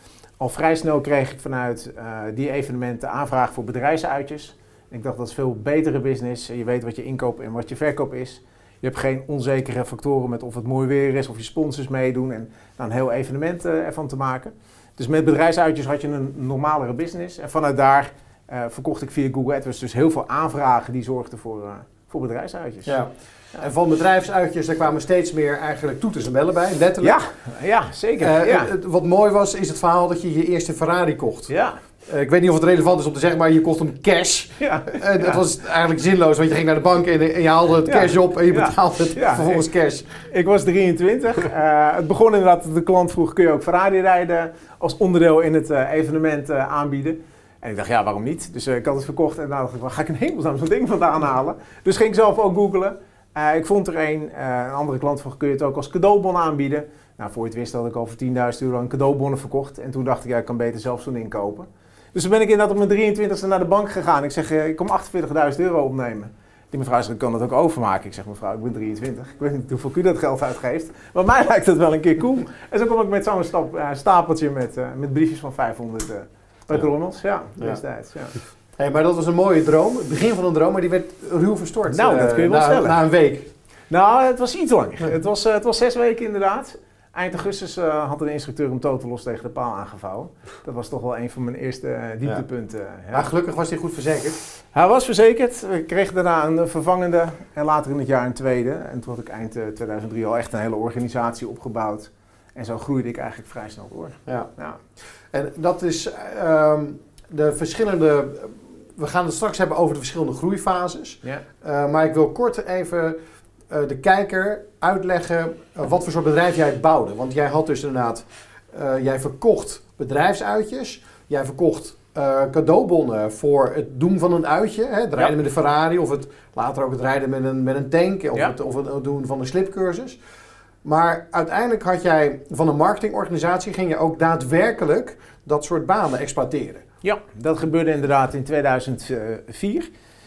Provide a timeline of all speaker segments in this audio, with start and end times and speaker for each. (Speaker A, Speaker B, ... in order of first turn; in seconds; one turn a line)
Speaker A: 0.4-23.0
Speaker B: 22.9-27.2
Speaker A: 27.0-28.7
Speaker B: 28.2-31.5
Speaker A: 31.5-31.8
Speaker B: 32.0-40.1
Speaker A: 34.6-35.4
Speaker A: 37.8-39.7
Speaker A: 40.3-78.3
Speaker B: 78.8-83.5
Speaker A: 81.9-83.0
Speaker A: 83.9-93.3
Speaker B: 93.1-94.4
Speaker A: 94.7-104.8
Speaker B: 105.3-113.2
Speaker B: 113.7-130.2
Speaker B: 130.8-136.8
Speaker A: 137.0-139.9